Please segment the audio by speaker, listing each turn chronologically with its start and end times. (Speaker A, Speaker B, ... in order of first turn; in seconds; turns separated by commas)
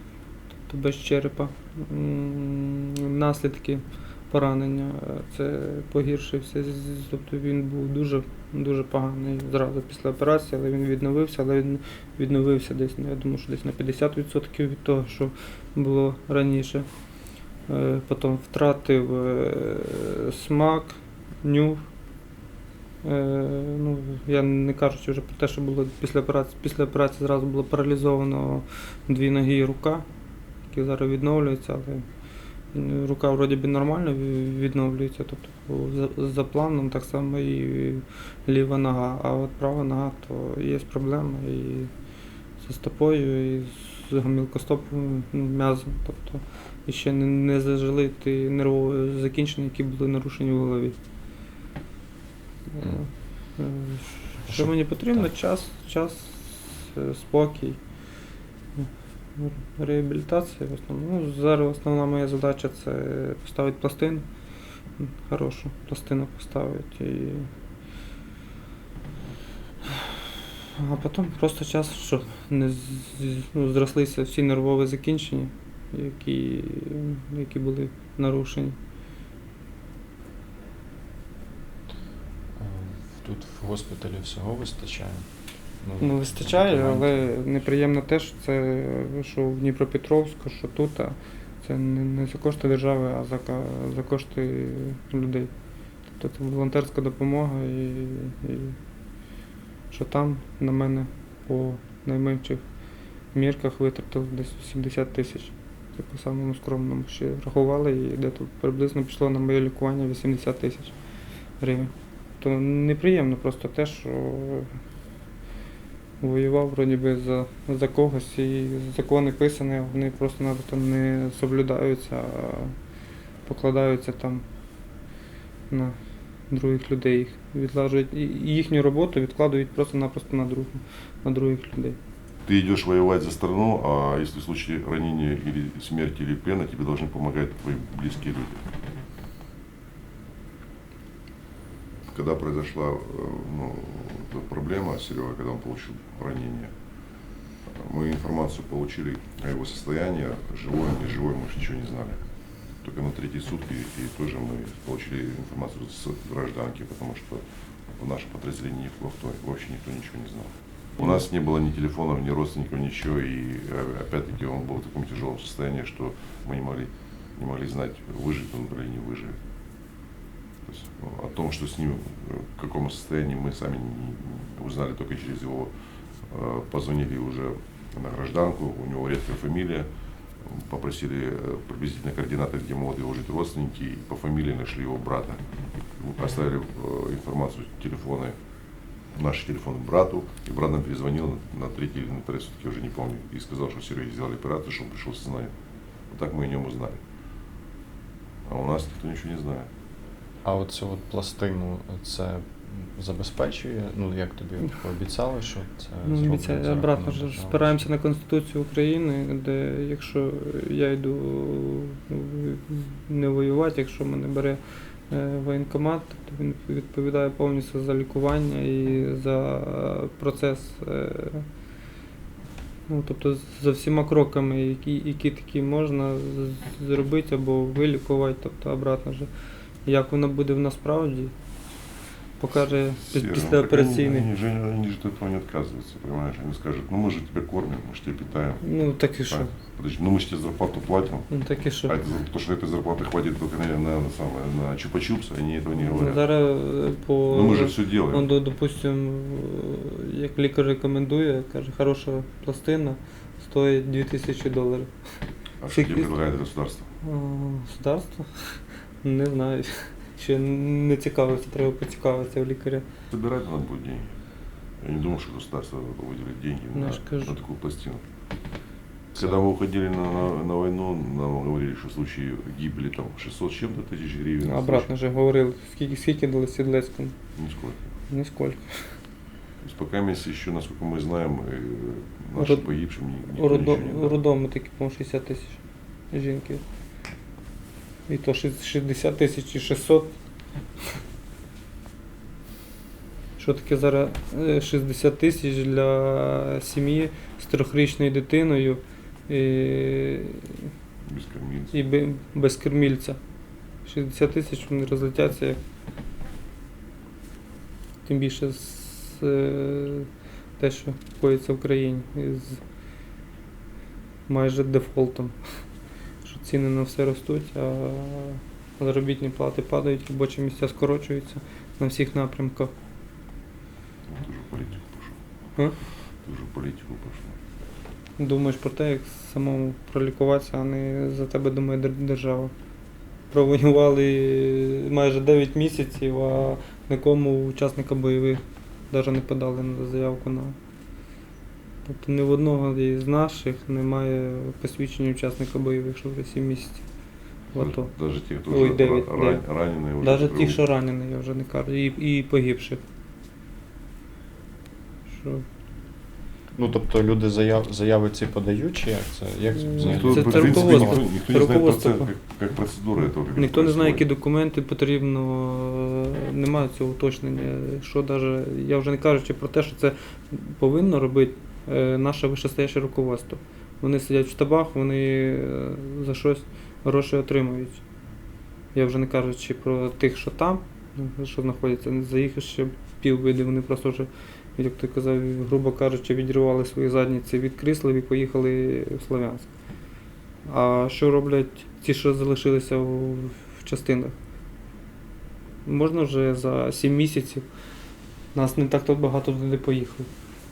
Speaker A: 0.7-16.9, Speaker A: 17.7-21.8, Speaker A: 23.0-30.1, Speaker A: 30.7-32.0, Speaker A: 32.7-41.9, Speaker A: 42.6-51.0, Speaker A: 52.7-57.8, Speaker A: 58.8-64.2, Speaker A: 65.0-67.5, Speaker A: 69.9-70.1, Speaker A: 70.7-78.8, Speaker B: 82.5-87.3, Speaker A: 86.0-95.5, Speaker A: 96.2-98.8, Speaker A: 99.9-102.6, Speaker A: 103.3-110.9, Speaker A: 111.6-114.7, Speaker A: 116.2-122.7, Speaker A: 123.4-124.4, Speaker A: 125.7-126.0, Speaker A: 126.5-132.0, Speaker C: 132.4-138.6, Speaker C: 142.1-146.7, Speaker C: 147.7-152.2, Speaker C: 152.8-157.4, Speaker C: 158.0-169.4, Speaker A: 161.0-161.2, Speaker C: 170.7-175.7, Speaker C: 176.3-179.9, Speaker C: 180.4-185.4, Speaker C: 186.0-188.4, Speaker C: 189.1-195.5, Speaker C: 196.1-197.0, Speaker C: 198.4-199.7, Speaker B: 200.4-207.8, Speaker A: 206.0-221.5, Speaker A: 222.9-229.3, Speaker A: 229.8-231.3, Speaker A: 232.4-234.3, Speaker C: 233.0-238.7, Speaker A: 238.6-239.5, Speaker C: 239.2-241.3, Speaker A: 241.3-241.9, Speaker C: 241.9-246.3, Speaker A: 245.8-254.9, Speaker C: 247.3-248.3, Speaker C: 255.6-256.9, Speaker A: 255.7-256.1, Speaker A: 257.0-262.9, Speaker C: 263.1-264.1, Speaker C: 264.8-268.0, Speaker A: 266.7-267.4, Speaker C: 269.1-274.9, Speaker A: 274.4-277.1, Speaker C: 277.4-277.9, Speaker A: 278.1-279.0, Speaker C: 279.6-284.2, Speaker A: 282.4-282.6, Speaker A: 283.3-285.6, Speaker A: 286.1-286.6, Speaker A: 288.1-290.1, Speaker A: 293.4-300.7, Speaker C: 301.1-301.7, Speaker A: 301.7-303.2, Speaker A: 303.8-305.6, Speaker A: 308.1-312.6, Speaker A: 314.3-315.6, Speaker A: 316.2-322.7, Speaker C: 324.1-325.2, Speaker C: 326.2-327.4, Speaker A: 328.2-332.5, Speaker A: 333.3-340.6, Speaker A: 341.9-346.8, Speaker A: 347.5-347.9, Speaker C: 347.6-350.6, Speaker A: 348.5-349.4, Speaker A: 350.0-352.8, Speaker A: 355.1-355.4, Speaker B: 356.5-361.0, Speaker A: 359.6-362.1, Speaker C: 359.8-364.0, Speaker A: 363.4-377.8, Speaker A: 378.7-389.5, Speaker A: 390.4-394.1, Speaker A: 395.6-397.5, Speaker A: 398.3-400.1